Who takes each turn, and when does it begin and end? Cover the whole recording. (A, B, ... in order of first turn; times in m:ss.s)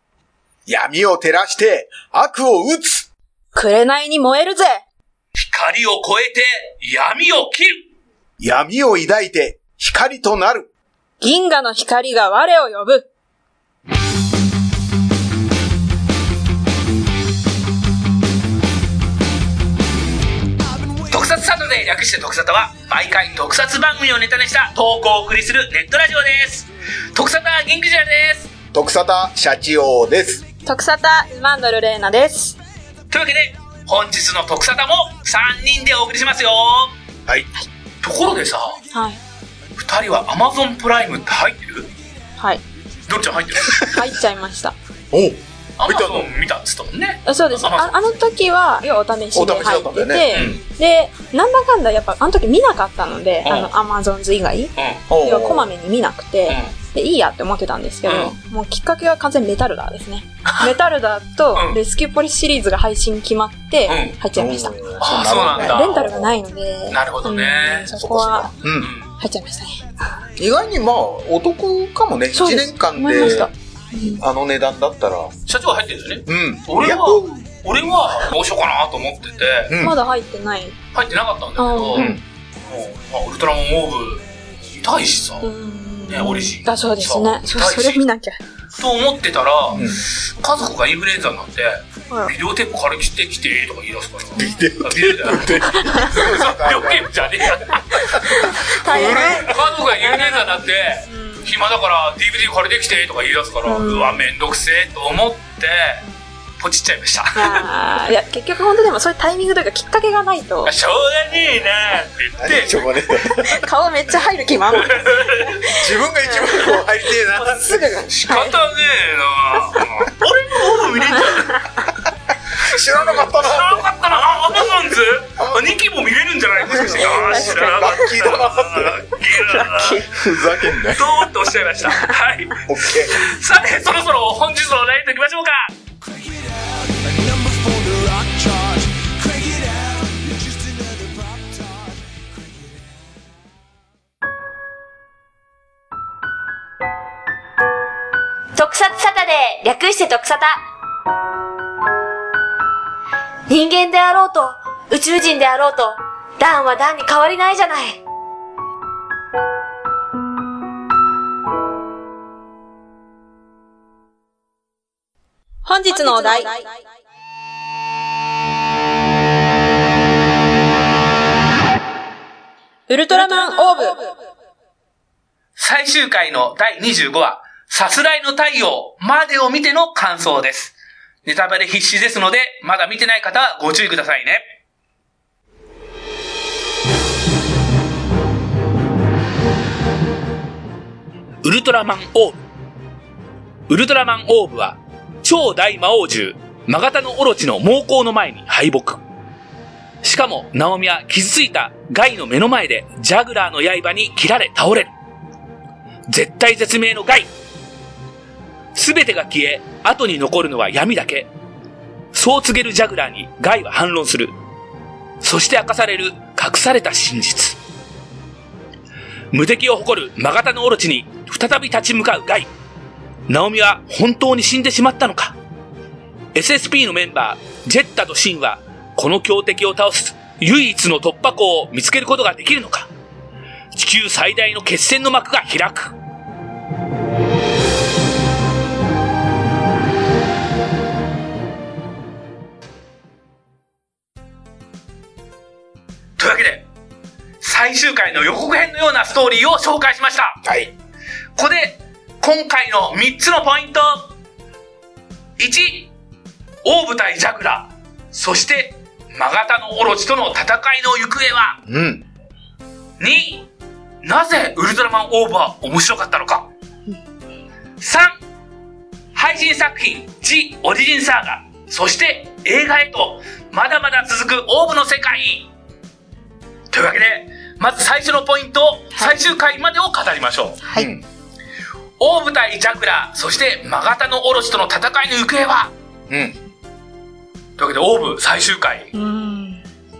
0:00.6-0:03.1 A
0:03.5-0:04.8 B
0:05.4-0:07.8 C
0:08.4-0:10.7 A
0:11.2-0:13.1 B
0:21.0-0:28.5 C
0:28.7-0:30.4 A
0:30.6-0:32.6 B
0:33.1-0:36.9 C
0:38.0-0:38.8 C
0:38.9-0:39.2 B
0:39.8-0:41.9 C
0:43.1-0:44.0 C
0:43.7-0:44.8 B
0:45.1-0:46.2 A
0:45.8-0:48.0 C
0:47.2-1:08.5 B
0:49.3-0:50.6 A
0:50.3-0:50.6 C
0:53.4-0:53.7 C
0:54.8-0:55.0 C
0:55.1-0:55.7 A
0:56.5-0:56.8 C
0:58.1-0:58.3 C
1:00.4-1:00.7 C
1:03.9-1:04.2 C
1:04.3-1:06.3 A
1:05.0-1:06.1 C
1:06.9-1:07.9 C
1:08.0-1:08.9 A
1:08.8-1:09.1 C
1:09.1-1:09.9 B
1:10.4-1:15.3 A
1:12.3-1:14.2 B
1:15.5-1:19.7 C
1:16.3-1:17.3 A
1:19.7-1:20.0 A
1:19.8-1:20.8 B
1:20.9-1:25.5 C
1:21.6-1:22.2 B
1:21.9-1:22.2 A
1:25.4-1:28.4 B
1:26.1-1:28.0 C
1:28.8-1:46.0 C
1:29.7-1:30.0 A
1:34.3-1:37.2 A
1:35.7-1:36.3 B
1:38.0-1:41.5 B
1:38.1-1:39.5 A
1:43.6-1:44.2 B
1:46.6-1:47.7 C
1:47.4-1:50.7 B
1:50.6-1:52.8 C
1:52.4-1:53.7 A
1:53.3-1:58.6 B
1:54.8-1:55.7 C
1:55.7-1:57.9 A
1:58.1-2:01.7 C
2:02.6-2:03.9 A
2:02.7-2:10.1 C
2:05.4-2:05.8 A
2:06.6-2:09.0 A
2:06.7-2:08.3 B
2:09.3-2:10.1 B
2:10.1-2:11.1 A
2:10.9-2:15.7 C
2:12.7-2:13.3 A
2:17.1-2:20.0 D
2:20.6-2:21.6 D
2:28.6-2:30.6 E
2:33.5-2:38.0 E
2:45.6-2:46.7 B
2:52.9-2:54.1 B
2:55.6-3:04.4 C
3:11.4-3:12.4 C
3:13.7-3:19.0 C
3:20.0-3:24.9 C
3:26.1-3:27.3 C
3:28.8-3:31.3 C
3:32.1-3:34.3 C
3:35.2-3:37.6 C
3:39.3-3:42.5 C
3:43.3-3:45.4 C
3:46.3-3:52.9 C
3:53.7-3:55.9 C
4:06.2-4:06.7 C
4:07.4-4:10.4 C
4:10.4-4:10.7 A
4:11.4-4:14.1 C
4:15.4-4:15.9 C
4:16.6-4:21.6 C
4:21.6-4:22.0 A
4:23.0-4:23.5 C
4:24.0-4:26.5 C
4:27.8-4:28.1 C
4:29.1-4:35.5 C
4:36.7-4:40.6 C
4:40.6-4:40.9 B
4:40.7-4:41.0 A
4:42.0-4:45.7 C
4:46.1-4:46.4 A
4:47.6-4:48.9 C
4:48.9-4:49.6 B